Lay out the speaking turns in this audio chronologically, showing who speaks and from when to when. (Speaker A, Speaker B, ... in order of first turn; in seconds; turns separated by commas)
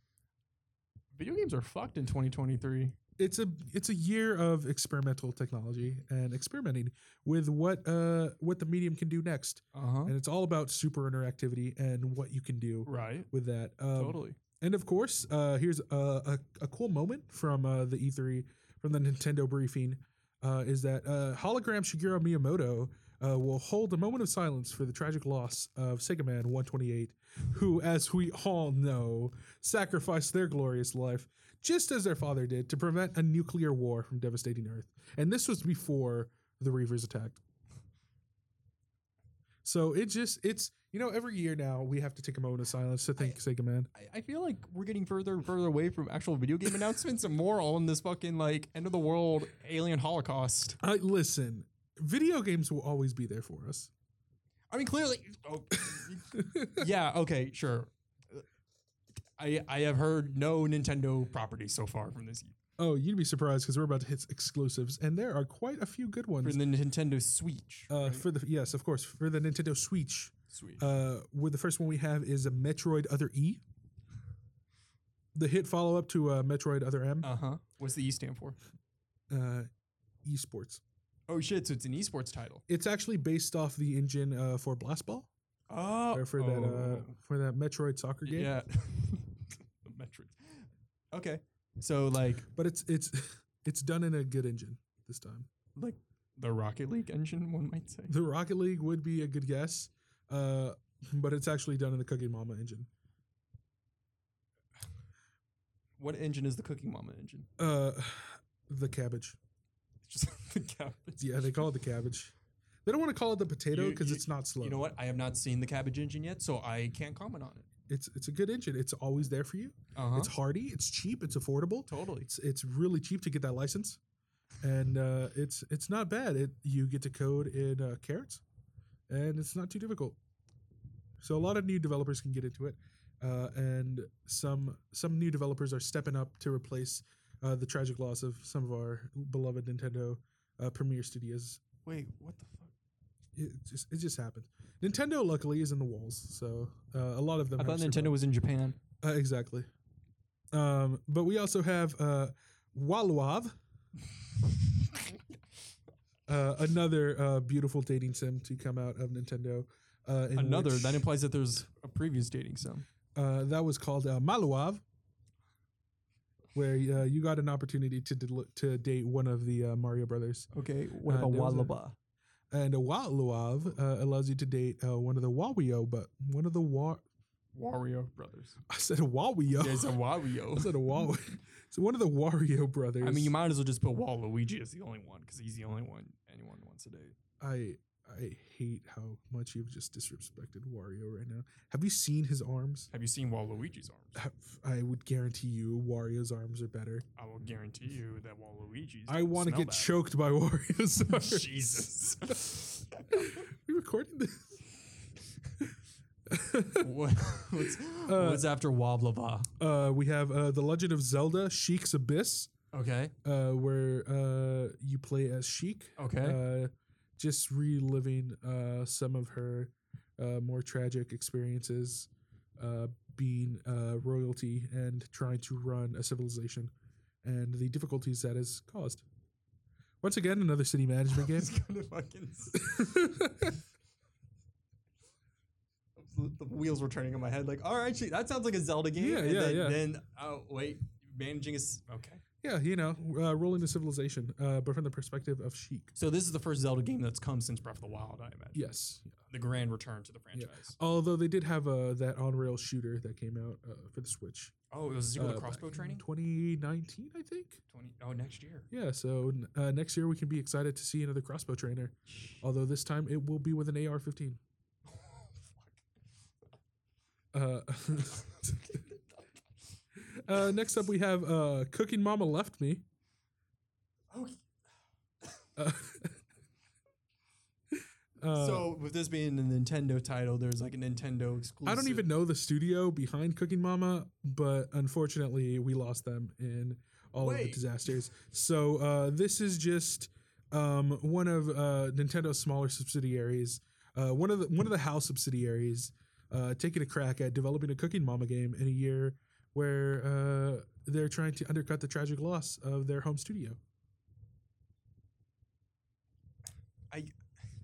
Speaker A: 1.1-3.0, Speaker B: 3.2-37.4, Speaker A: 9.7-10.2, Speaker A: 12.8-13.3, Speaker A: 13.9-14.4, Speaker B: 39.6-43.9, Speaker A: 44.0-50.8, Speaker B: 50.8-53.9, Speaker A: 54.7-58.5, Speaker B: 55.8-56.9, Speaker A: 59.4-62.6, Speaker B: 62.8-66.6, Speaker A: 66.4-68.3, Speaker B: 67.9-73.6, Speaker A: 70.5-70.9, Speaker B: 75.3-77.3, Speaker A: 77.2-78.6, Speaker B: 79.3-79.7, Speaker B: 80.2-80.8, Speaker A: 81.3-82.6, Speaker B: 82.7-85.3, Speaker A: 85.7-87.2, Speaker B: 86.1-88.5, Speaker A: 88.2-92.5, Speaker B: 92.5-95.5, Speaker A: 95.8-98.2, Speaker B: 98.1-102.9, Speaker A: 106.0-107.5, Speaker B: 107.6-109.4, Speaker A: 110.0-111.2, Speaker B: 111.2-112.3, Speaker B: 112.9-114.8, Speaker A: 113.7-117.7, Speaker B: 117.9-124.0, Speaker A: 120.0-120.3, Speaker A: 121.9-122.3, Speaker B: 124.6-128.4, Speaker B: 129.1-130.2, Speaker B: 131.2-141.6, Speaker A: 141.8-142.7, Speaker B: 143.3-148.2, Speaker A: 147.6-148.8, Speaker B: 149.0-149.7, Speaker B: 150.5-153.6, Speaker B: 156.3-161.1, Speaker A: 160.4-162.8, Speaker B: 163.2-164.8, Speaker B: 166.5-170.5, Speaker A: 170.5-172.0, Speaker B: 171.1-171.8, Speaker B: 172.5-177.0, Speaker A: 177.5-178.6, Speaker B: 178.7-180.0, Speaker A: 179.6-180.8, Speaker B: 180.5-183.3, Speaker A: 183.0-187.2, Speaker B: 187.4-192.9, Speaker A: 192.9-194.2, Speaker B: 194.2-197.1, Speaker A: 197.2-199.9, Speaker B: 199.1-204.9, Speaker A: 201.1-203.5, Speaker B: 206.3-206.9, Speaker A: 206.8-209.5, Speaker B: 208.0-208.5, Speaker B: 209.6-212.5, Speaker A: 212.7-213.1, Speaker B: 213.2-226.7, Speaker A: 216.0-216.4, Speaker B: 227.2-229.1, Speaker B: 230.0-231.5, Speaker A: 231.1-233.1, Speaker B: 232.5-233.6, Speaker A: 236.0-242.2, Speaker B: 239.0-239.8, Speaker B: 242.4-245.9, Speaker A: 245.9-248.7, Speaker B: 248.6-249.2, Speaker A: 249.3-250.8, Speaker B: 250.3-254.6, Speaker A: 254.7-256.0, Speaker B: 255.2-257.6, Speaker A: 257.7-258.7, Speaker B: 258.7-264.4, Speaker A: 262.1-262.4, Speaker A: 264.9-265.8, Speaker B: 267.3-268.8, Speaker B: 270.0-272.8, Speaker A: 274.1-274.4, Speaker B: 275.6-276.2, Speaker B: 277.7-278.7, Speaker A: 278.3-282.1, Speaker B: 281.7-303.6, Speaker A: 287.2-287.6, Speaker A: 306.9-307.1